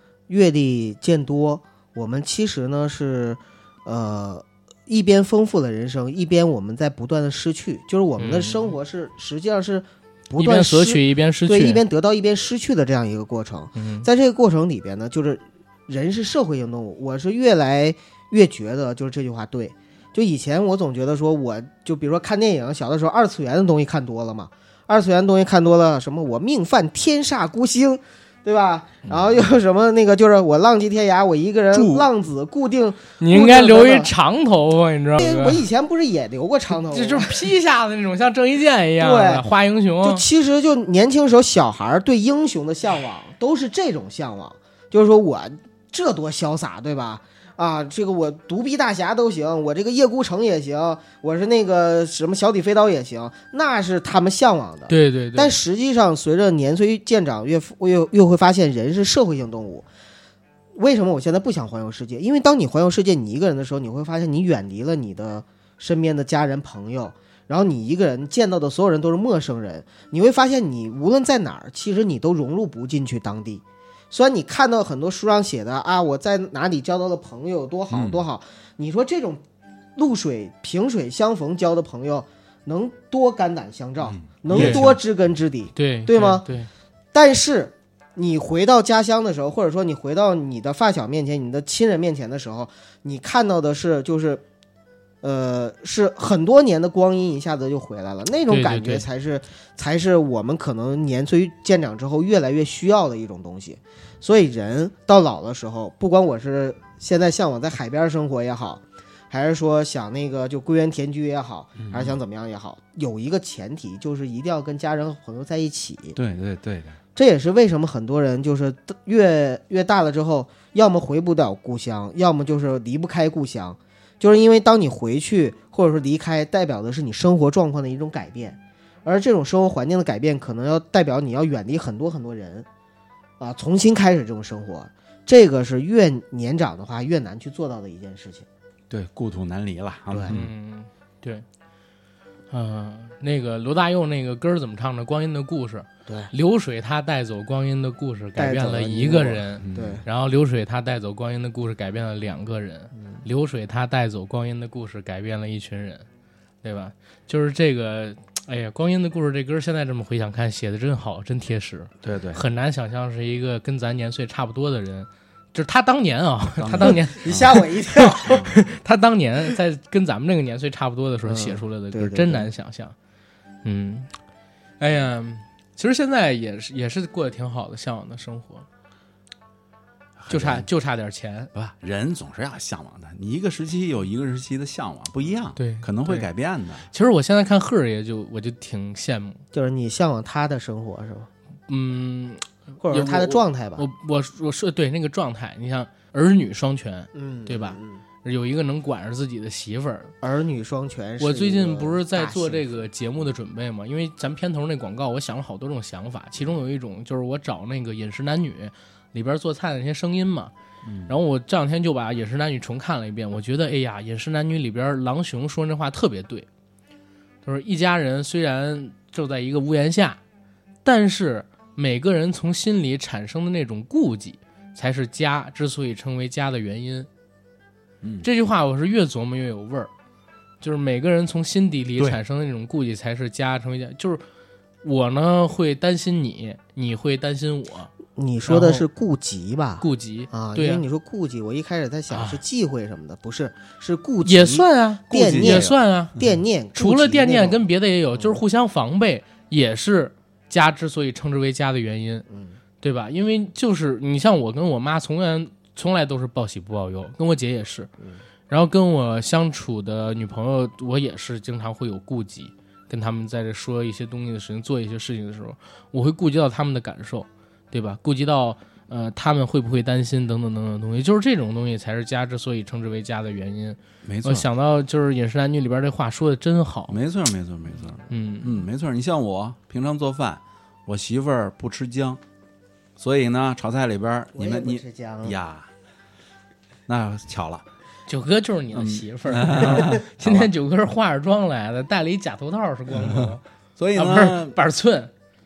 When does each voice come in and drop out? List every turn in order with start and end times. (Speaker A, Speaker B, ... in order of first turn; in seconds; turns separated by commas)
Speaker A: 0.3-34.1, Speaker B: 8.2-8.7, Speaker B: 10.4-11.8, Speaker B: 13.8-14.1, Speaker B: 33.2-35.6, Speaker A: 35.2-37.5, Speaker B: 36.7-40.2, Speaker A: 39.0-39.5, Speaker A: 40.0-59.9, Speaker B: 54.9-55.6, Speaker A: 60.7-79.4, Speaker C: 77.9-78.2, Speaker A: 80.0-86.5, Speaker C: 84.0-85.0, Speaker B: 84.5-84.8, Speaker B: 85.7-86.7, Speaker A: 87.1-94.4, Speaker A: 95.2-116.2, Speaker B: 98.5-99.0, Speaker C: 111.8-112.2, Speaker C: 116.2-117.0, Speaker A: 117.2-132.7, Speaker A: 133.4-138.5, Speaker C: 138.9-140.5, Speaker A: 140.1-140.3, Speaker B: 140.3-141.4, Speaker B: 142.5-156.0, Speaker A: 146.1-146.3, Speaker A: 148.3-150.0, Speaker C: 149.6-150.0, Speaker B: 156.6-172.9, Speaker C: 162.0-162.4, Speaker C: 166.6-167.6, Speaker A: 166.8-168.4, Speaker C: 168.2-168.6, Speaker A: 171.2-172.5, Speaker B: 173.6-174.1, Speaker B: 174.8-178.7, Speaker C: 180.2-180.7, Speaker B: 180.3-181.5, Speaker C: 181.5-186.9, Speaker B: 185.6-186.3, Speaker B: 186.9-189.4, Speaker A: 189.5-191.3, Speaker B: 191.7-200.1, Speaker A: 192.8-193.8, Speaker A: 197.1-198.0, Speaker A: 200.2-202.8, Speaker B: 201.2-210.5, Speaker C: 210.8-211.1, Speaker B: 211.1-216.5, Speaker B: 217.4-220.2, Speaker B: 220.8-227.1, Speaker C: 228.0-228.3, Speaker B: 228.2-229.9, Speaker B: 230.6-234.2, Speaker B: 234.8-237.9, Speaker A: 238.1-248.4, Speaker B: 238.4-238.8, Speaker B: 239.8-240.8, Speaker B: 242.1-242.4, Speaker B: 244.2-246.1, Speaker C: 245.1-246.3, Speaker B: 246.7-252.2, Speaker A: 252.3-252.6, Speaker B: 252.8-257.9, Speaker B: 258.5-276.9, Speaker C: 274.0-274.4, Speaker C: 276.9-282.2, Speaker B: 278.1-278.5, Speaker C: 283.0-285.7, Speaker A: 284.3-285.4, Speaker C: 286.9-287.6, Speaker B: 288.1-293.4, Speaker C: 288.7-290.5, Speaker C: 292.9-294.6, Speaker B: 293.9-295.1